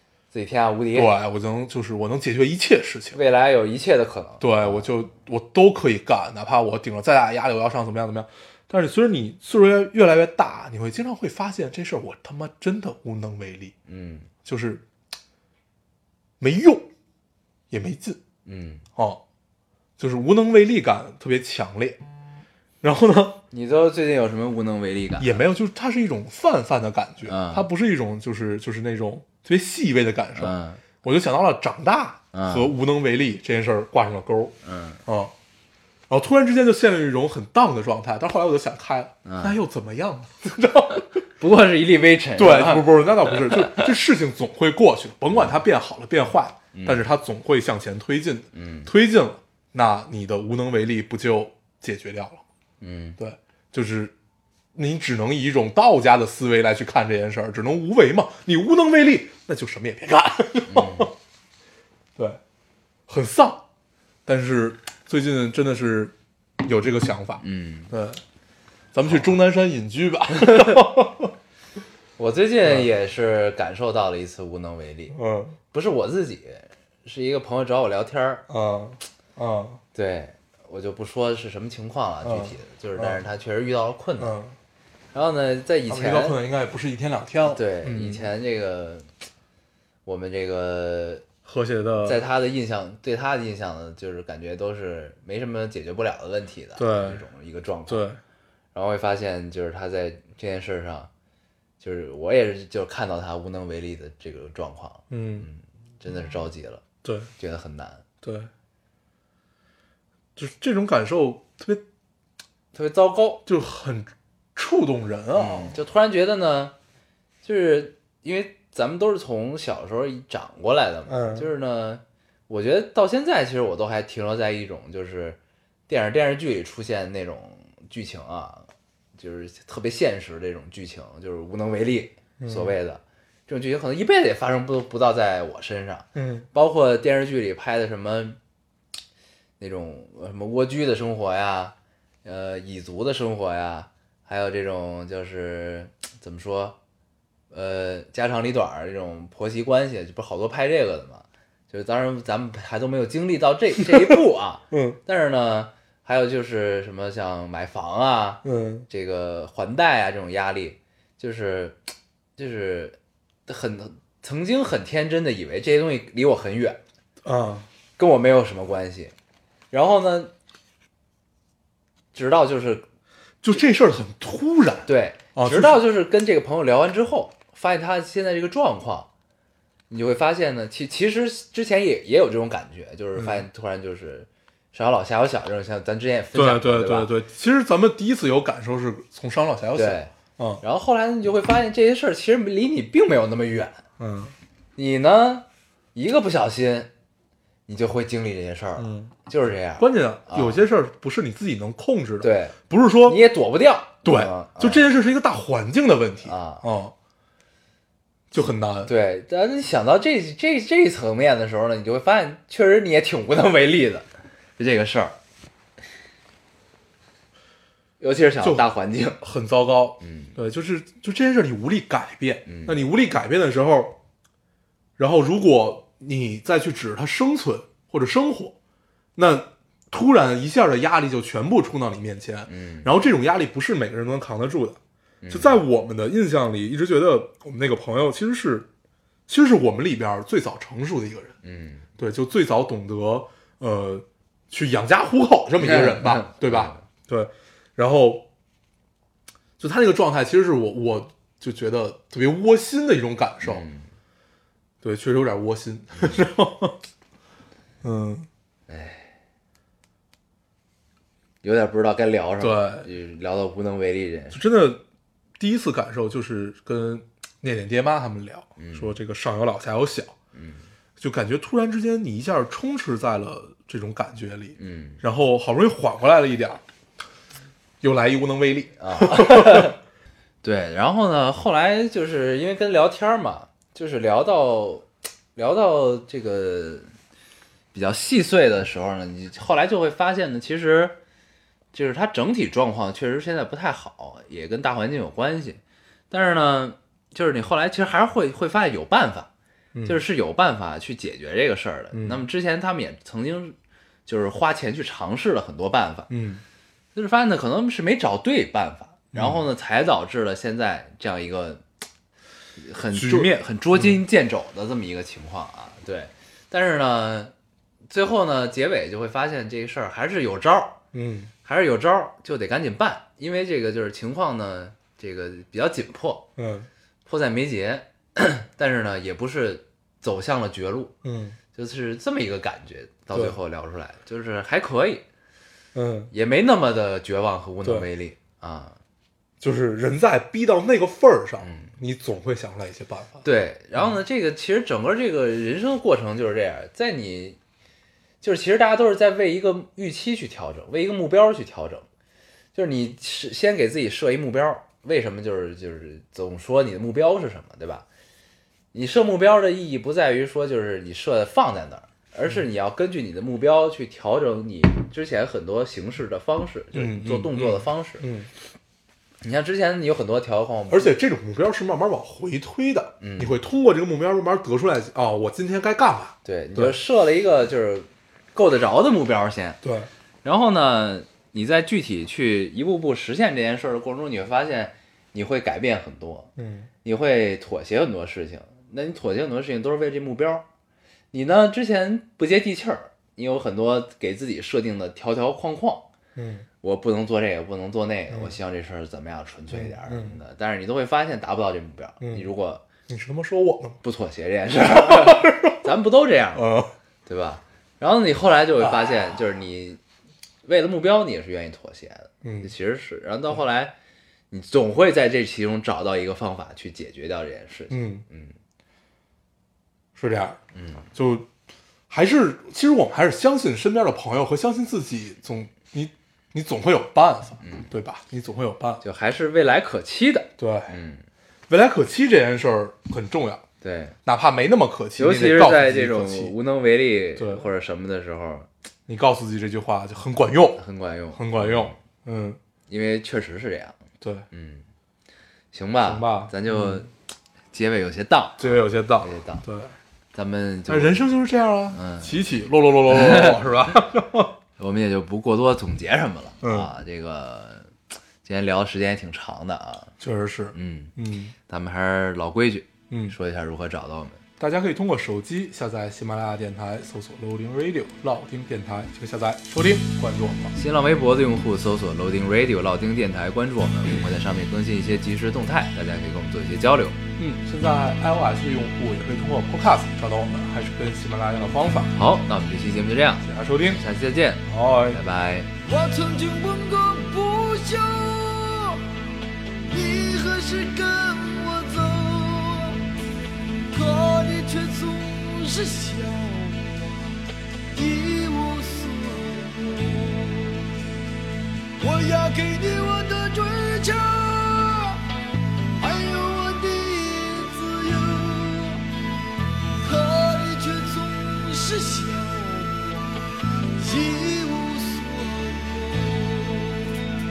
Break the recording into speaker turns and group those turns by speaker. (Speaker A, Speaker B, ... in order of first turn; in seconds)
Speaker A: 0.3-1.1, 3.1-4.9, 13.9-14.3, 18.4-18.8, 23.5-25.4, 27.2-27.6, 30.3-30.8, 32.3-32.7, 34.6-35.0, 39.2-39.5, 41.4-43.9, 46.7-47.0, 48.5-48.9, 52.8-53.2, 60.7-61.1, 67.4-67.9, 69.1-69.3, 70.4-70.8, 72.2-75.2, 75.7-78.4, 79.9-84.3, 85.1-86.4, 87.5-89.1, 90.0-91.2, 92.0-98.0, 98.7-101.1, 101.8-106.8, 107.4-108.0, 112.7-113.4, 115.3-116.7, 117.4-138.4, 139.6-146.8, 147.5-166.8, 168.0-169.1, 169.7-170.3, 172.1-172.8, 174.8-179.1, 179.9-187.1, 189.7-193.8, 194.8-196.9, 197.7-200.6, 202.2-204.8, 206.2-206.6, 208.8-215.2, 218.0-219.2, 220.0-220.3, 222.4-222.7, 232.5-232.9, 235.2-235.6, 241.4-241.8, 245.6-246.8, 253.4-253.9, 258.7-259.1, 261.4-264.4, 268.6-268.9, 270.3-270.6, 274.6-275.0, 278.8-279.8, 280.4-286.9, 287.7-291.0, 291.7-299.3, 299.9-303.5, 304.1-306.1, 306.9-311.6, 312.6-317.3, 317.9-320.8, 321.4-326.3, 327.1-330.9, 331.5-335.0, 336.1-338.8, 341.4-341.7, 343.2-347.4, 348.2-351.9, 352.5-357.9, 358.7-368.1, 369.2-370.9, 373.0-373.4, 376.2-379.6, 380.2-386.3, 386.8-390.4, 391.1-395.9, 396.6-402.6, 403.8-406.4, 407.1-409.8, 410.4-413.7, 414.3-418.3, 420.5-420.9, 427.4-427.7, 428.8-431.0, 433.6-433.9, 435.0-438.5, 440.6-441.8, 442.7-443.8, 444.3-444.6, 445.5-446.9, 447.5-448.4, 449.0-449.4, 450.1-451.0, 451.7-452.2, 452.9-453.7, 454.6-459.9, 460.5-460.9, 461.5-464.2, 470.5-477.0, 481.9-485.5
Speaker B: 0.9-3.2, 4.4-13.7, 14.4-14.8, 16.4-16.9, 17.7-18.2, 18.9-19.2, 20.0-22.0, 22.8-23.4, 25.2-34.5, 35.0-35.3, 36.1-41.2, 42.4-52.4, 53.2-54.1, 54.7-61.1, 63.1-63.6, 64.2-68.2, 68.9-71.3, 75.1-75.6, 78.5-79.8, 82.2-83.2, 84.2-84.5, 85.9-88.2, 91.4-92.2, 96.8-97.2, 97.9-98.2, 105.1-105.5, 107.0-107.3, 108.2-108.5, 110.3-111.8, 113.5-115.8, 121.1-121.5, 132.4-132.7, 136.1-136.5, 153.9-154.2, 154.7-155.0, 158.4-158.8, 167.2-167.7, 173.4-175.8, 183.2-183.4, 186.3-190.6, 194.0-194.3, 198.8-199.1, 199.8-203.2, 204.0-206.9, 208.3-208.9, 219.2-224.0, 225.0-228.5, 229.2-234.8, 235.3-238.7, 239.3-241.3, 242.0-248.2, 249.6-253.6, 254.8-256.8, 257.8-258.3, 262.4-262.9, 264.3-264.8, 265.4-270.1, 271.0-276.6, 277.8-279.7, 299.7-300.0, 301.9-302.2, 306.1-306.4, 309.1-309.4, 312.9-314.0, 320.9-321.3, 326.4-326.7, 331.0-331.4, 335.7-336.1, 337.6-337.9, 339.4-343.2, 366.7-368.3, 370.7-376.8, 379.6-379.9, 386.4-386.7, 396.1-396.4, 398.1-398.4, 399.5-400.2, 402.0-402.2, 402.9-403.8, 404.7-405.7, 406.3-406.7, 408.6-408.9, 412.2-412.5, 417.7-418.0, 419.9-420.4, 420.9-421.3, 421.9-428.8, 430.4-430.7, 431.5-433.4, 434.1-436.3, 437.2-437.4, 438.9-440.6, 441.1-442.4, 444.0-444.3, 445.8-446.9, 448.4-449.7, 450.7-454.3, 456.4-456.7, 460.0-461.3, 462.9-463.1, 464.4-470.5, 477.2-481.9, 483.2-483.8, 484.5-485.0
Speaker C: 485.6-488.8, 489.7-492.8, 493.7-497.2, 497.7-500.6, 501.8-505.1, 505.8-508.9, 509.8-513.2, 513.8-517.0